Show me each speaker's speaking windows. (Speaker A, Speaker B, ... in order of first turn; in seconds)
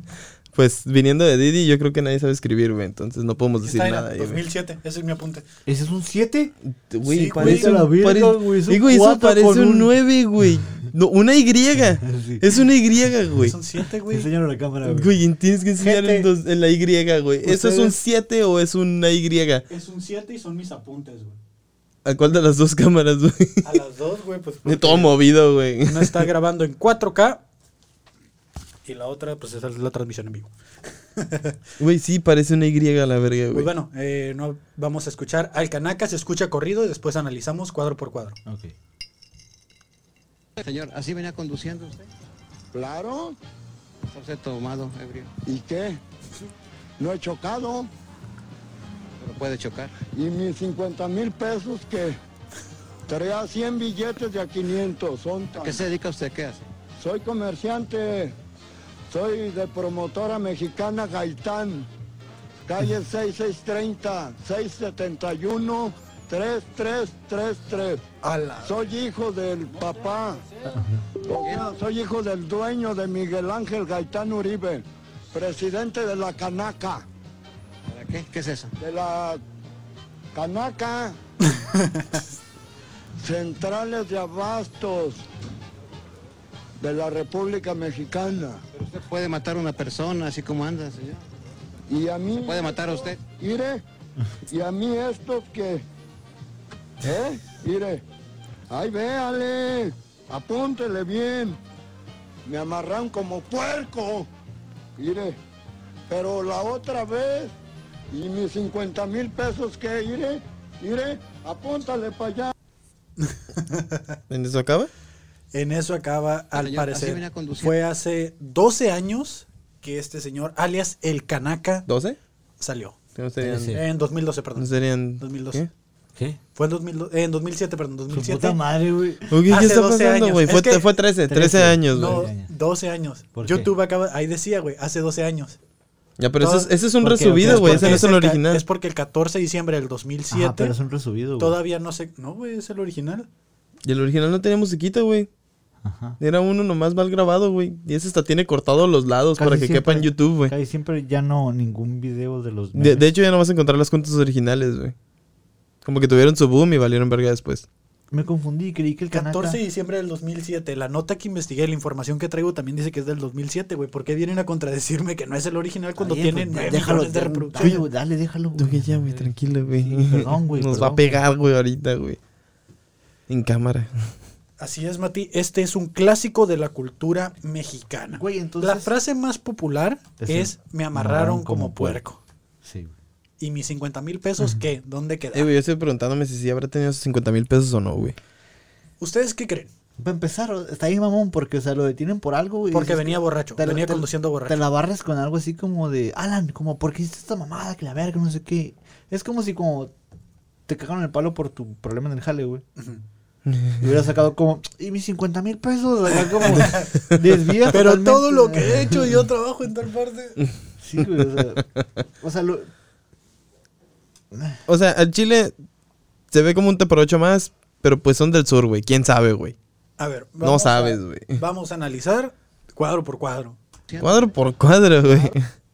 Speaker A: 0.5-4.4, 6.7-13.6, 14.8-19.6, 22.0-23.8, 24.6-26.3, 31.8-33.7, 114.3-114.9, 121.9-122.2, 123.2-123.8, 124.5-125.7, 129.3-132.3, 136.2-138.6, 143.8-145.3, 146.2-150.5, 152.7-154.9, 155.8-157.7, 168.6-172.2, 173.3-174.1, 185.3-188.2, 214.7-215.5, 216.3-219.6, 220.4-221.4, 224.0-225.5
Speaker B: 3.6-5.4, 7.0-7.8, 13.4-14.3, 19.7-21.4, 23.6-25.1, 25.9-27.4, 28.8-30.5, 31.1-31.6, 33.5-38.4, 68.2-68.8, 69.8-70.8, 81.5-82.2, 113.2-114.1, 115.5-121.8, 122.6-123.0, 123.7-124.7, 125.2-125.6, 126.5-128.6, 129.5-130.9, 131.9-135.6, 136.4-136.7, 137.4-140.7, 141.4-143.3, 159.1-167.8, 174.6-182.2, 183.4-185.5, 189.0-189.7, 192.7-194.6, 206.4-206.9, 207.7-210.4, 220.0-223.6
Speaker C: 5.7-6.5, 7.4-9.9, 12.0-12.4, 14.1-15.1, 15.8-16.3, 17.4-18.0, 38.5-38.7, 70.7-71.0, 123.4-123.8, 128.1-129.5, 131.3-132.5, 133.3-133.7, 137.0-138.0, 140.3-141.6, 145.8-146.2, 149.4-153.0, 158.1-159.6, 166.0-171.2, 178.1-178.9, 180.2-182.0, 182.6-182.9, 190.0-199.9, 200.7-202.6, 203.8-209.2, 210.8-211.7, 212.2-212.7, 214.3-214.6
Speaker D: 40.6-42.1, 44.0-45.3, 49.2-49.9, 55.5-56.6, 71.4-71.7, 77.9-78.7, 88.7-91.2, 92.4-93.2, 116.5-117.8, 223.9-224.5, 225.1-225.3
Speaker E: 42.7-43.4, 45.5-46.0, 47.0-47.9, 50.0-52.2, 53.1-55.9, 57.0-58.4, 59.1-61.9, 62.6-68.0, 68.6-70.4, 71.2-77.0, 78.8-79.4, 80.3-81.2, 83.2-85.3, 86.8-88.6, 91.9-93.8, 94.5-95.8, 97.0-98.0, 98.7-101.6, 102.5-104.3, 105.0-105.4, 106.1-107.5, 108.1-112.5